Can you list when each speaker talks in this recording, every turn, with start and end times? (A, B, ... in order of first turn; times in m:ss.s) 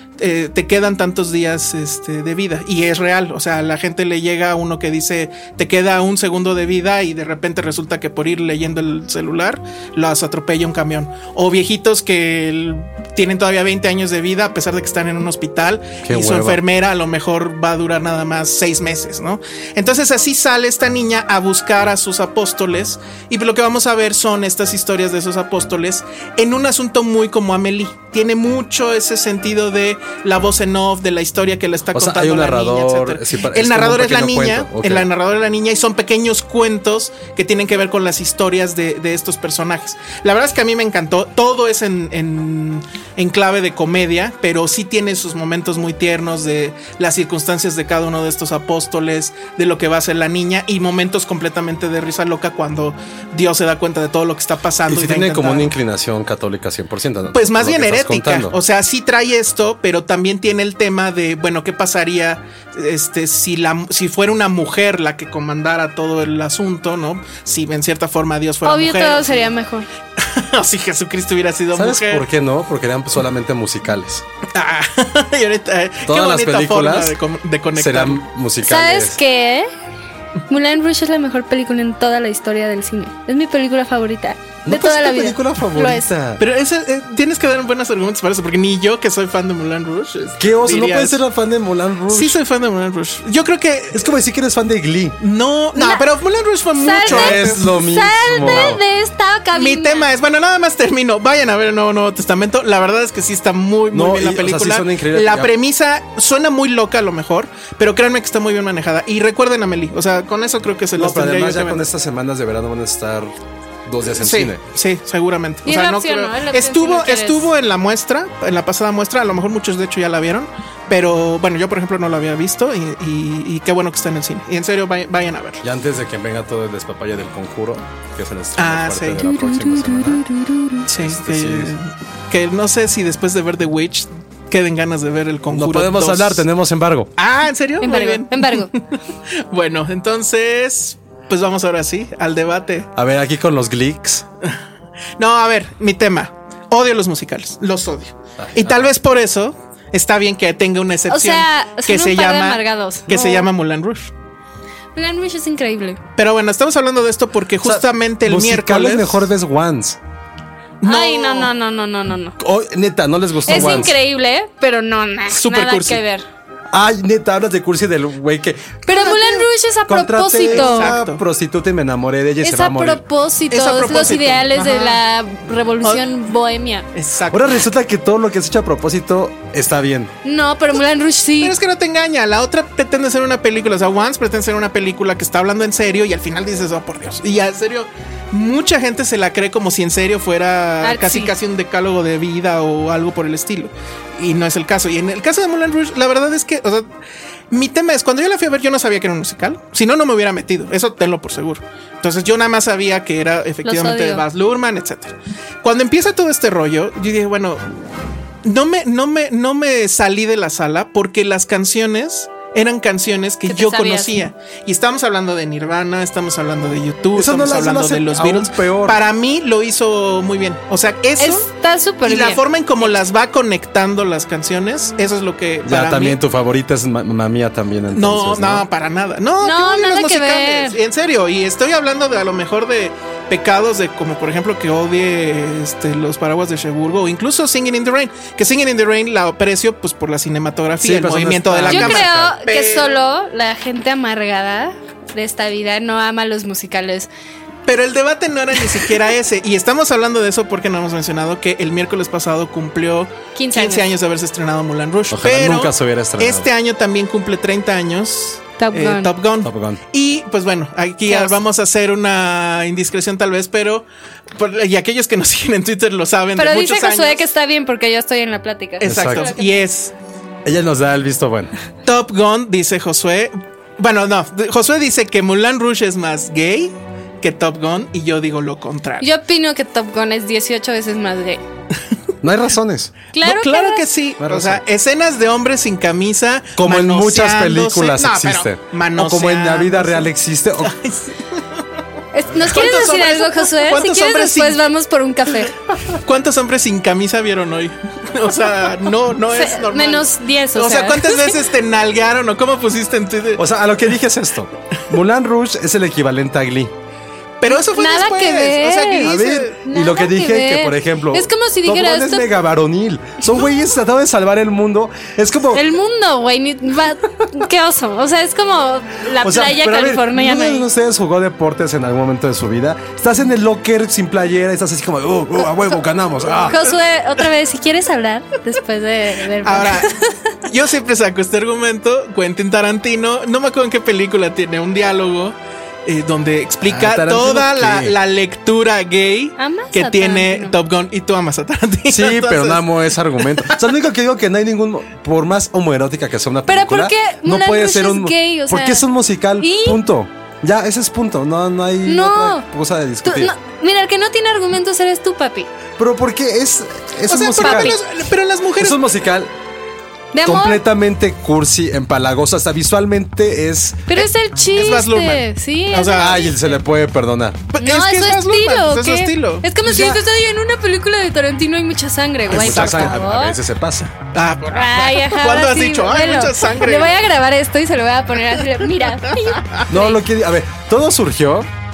0:00.2-0:55.7 A
0:16.0-0:16.6 B
0:31.9-0:35.1 B
0:54.9-0:58.6 B
0:57.3-1:09.5 A
1:08.6-1:09.9 C
1:10.2-1:12.2 A
1:11.7-1:14.2 B
1:14.5-1:18.2 A
1:16.0-1:17.1 B
1:17.8-1:19.2 B
1:18.6-1:19.7 C
1:20.5-1:26.1 C
1:24.6-1:26.4 B
1:26.4-1:31.2 A
1:30.4-1:32.4 B
1:32.1-1:34.1 A
1:33.9-1:35.2 B
1:35.2-1:37.7 A
1:35.8-1:36.0 C
1:36.8-1:40.1 C
1:37.0-1:38.8 B
1:38.3-1:38.8 A
1:39.5-1:51.9 A
1:43.9-1:45.5 B
1:51.0-1:53.3 B
1:53.8-1:54.6 B
1:54.1-2:05.6 A
1:55.6-1:57.5 C
2:05.6-2:10.2 B
2:08.6-2:09.2 A
2:09.2-2:10.8 C
2:10.9-2:16.4 A
2:10.9-2:11.7 B
2:15.5-2:17.1 B
2:17.2-2:22.9 A
2:17.8-2:18.7 C
2:23.0-2:24.2 B
2:25.2-2:34.1 A
2:28.4-2:28.9 B
2:31.1-2:33.5 C
2:35.0-2:36.0 C
2:36.2-2:39.3 A
2:37.6-2:40.0 B
2:40.8-2:41.5 A
2:40.8-2:42.4 C
2:42.4-2:43.9 B
2:43.5-2:46.2 C
2:43.5-2:43.9 A
2:45.3-2:46.0 A
2:46.7-2:48.8 B
2:48.8-2:51.0 C
2:48.9-2:49.4 A
2:49.9-2:53.0 B
2:50.5-2:51.2 A
2:52.4-2:56.9 C
2:53.5-2:55.0 A
2:56.9-2:57.6 A
2:57.3-3:00.1 B
3:00.2-3:01.6 C
3:01.4-3:16.9 A
3:10.8-3:11.3 C
3:17.5-3:27.6 A
3:23.6-3:24.2 C
3:28.4-3:41.5 A
3:33.5-3:34.2 C
3:37.1-3:39.0 B
3:41.2-3:42.4 C
3:42.0-3:46.2 A
3:45.6-3:48.6 B
3:47.9-4:02.9 A
3:49.4-3:50.8 C
4:00.8-4:02.4 B
4:01.7-4:07.1 C
4:07.7-4:27.2 A
4:13.3-4:13.9 C
4:15.1-4:16.5 B
4:18.6-4:19.1 C
4:19.4-4:19.8 B
4:21.1-4:21.4 C
4:26.3-4:29.6 C
4:28.8-4:29.9 A
4:28.8-4:29.3 B
4:30.4-4:31.5 B
4:31.8-4:39.0 A
4:39.0-4:41.4 C
4:42.2-4:42.9 B
4:43.1-4:43.9 C
4:43.2-4:50.1 A
4:44.2-4:44.6 B
4:46.6-4:50.7 B
4:50.6-4:51.4 A
4:52.1-4:55.5 C
4:52.3-4:54.6 A
4:56.0-5:03.4 A
4:59.3-5:01.4 C
5:03.4-5:06.7 B
5:07.4-5:09.6 A
5:07.5-5:12.3 C
5:09.0-5:15.6 B
5:15.5-5:20.6 C
5:19.2-5:26.6 B
5:26.5-5:30.1 C
5:29.4-5:29.9 A
5:30.4-5:43.5 A
5:36.6-5:38.0 B
5:39.4-5:40.6 C
5:41.9-5:53.3 B
5:46.5-5:48.8 C
5:49.4-5:49.8 C
5:51.8-5:52.5 C
5:53.0-5:55.5 C
5:55.8-5:57.8 B
5:57.1-5:58.8 A
5:57.4-5:57.8 C
5:58.6-5:59.3 B
6:00.1-6:00.6 C
6:00.2-6:03.9 B
6:03.9-6:06.3 C
6:03.9-6:06.3 A
6:06.0-6:07.4 B
6:07.5-6:09.9 A
6:07.6-6:13.4 C
6:12.3-6:13.0 A
6:12.3-6:13.9 B
6:14.1-6:16.9 A
6:14.5-6:20.0 C
6:19.4-6:19.6 A
6:19.7-6:21.5 B